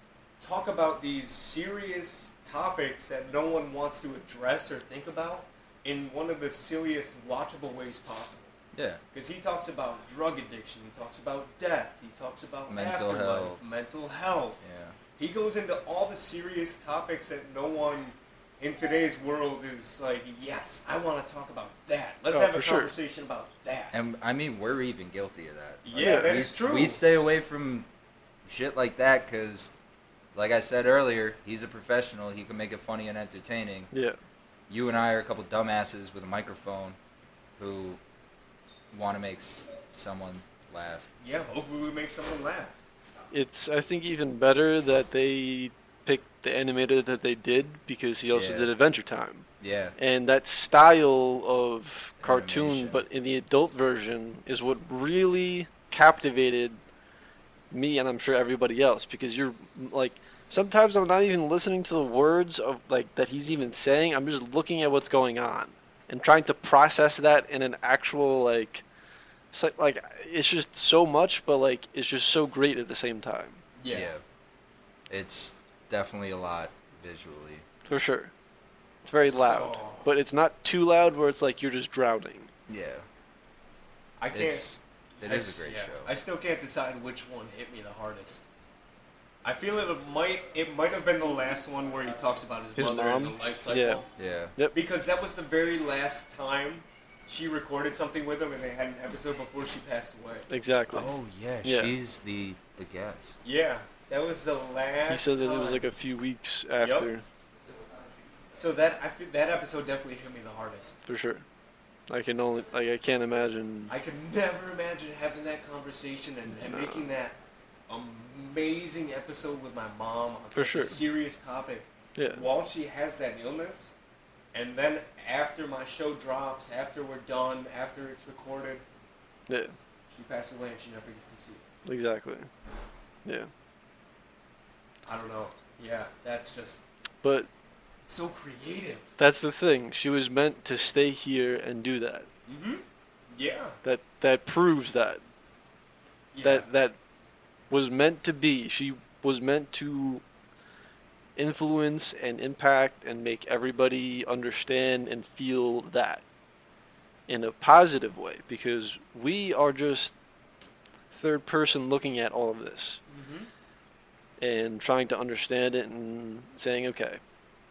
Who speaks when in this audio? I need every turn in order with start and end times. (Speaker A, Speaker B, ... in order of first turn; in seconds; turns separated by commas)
Speaker A: 0.4-8.5, Speaker B: 8.7-9.0, Speaker A: 9.1-14.6, Speaker B: 12.7-13.6, Speaker B: 14.6-15.0, Speaker A: 15.2-24.0, Speaker C: 22.3-22.9, Speaker B: 23.9-27.9, Speaker A: 25.8-27.0, Speaker C: 26.0-26.4, Speaker B: 28.5-29.7, Speaker B: 30.4-33.9, Speaker C: 33.9-34.2, Speaker B: 34.7-37.0, Speaker B: 37.6-38.0, Speaker B: 38.9-41.1, Speaker A: 41.2-42.8, Speaker C: 43.3-49.5, Speaker B: 48.3-48.7, Speaker B: 49.6-50.0, Speaker C: 50.0-56.8, Speaker B: 52.2-53.0, Speaker C: 57.7-68.8, Speaker C: 69.5-73.6, Speaker A: 73.8-74.1, Speaker B: 73.9-74.2, Speaker B: 75.1-77.7, Speaker C: 77.9-78.3, Speaker C: 79.0-82.5, Speaker A: 79.2-80.1, Speaker B: 82.7-83.1, Speaker A: 84.2-88.5, Speaker B: 84.3-86.1, Speaker A: 89.4-94.1, Speaker C: 92.8-94.0, Speaker B: 94.2-94.5, Speaker A: 94.7-100.5, Speaker C: 100.5-101.1, Speaker B: 100.9-103.4, Speaker C: 101.6-101.9, Speaker A: 103.4-105.9, Speaker C: 105.1-107.2, Speaker A: 106.8-107.1, Speaker A: 108.5-111.0, Speaker C: 111.1-111.5, Speaker C: 112.1-114.0, Speaker A: 113.9-117.4, Speaker C: 116.5-117.1, Speaker A: 117.9-124.0, Speaker C: 120.5-121.0, Speaker C: 122.2-122.5, Speaker A: 124.5-128.8, Speaker C: 129.5-129.8, Speaker A: 130.1-131.7, Speaker C: 131.9-132.5, Speaker C: 133.2-133.5, Speaker A: 135.1-136.9, Speaker C: 137.2-137.5, Speaker A: 138.0-139.2, Speaker C: 139.2-142.3, Speaker A: 142.5-143.8, Speaker C: 143.8-145.2, Speaker A: 146.3-146.7, Speaker C: 146.4-147.0, Speaker C: 147.7-150.2, Speaker C: 151.4-156.2, Speaker C: 157.3-160.2, Speaker C: 161.1-163.0, Speaker A: 163.1-163.5, Speaker C: 164.4-167.2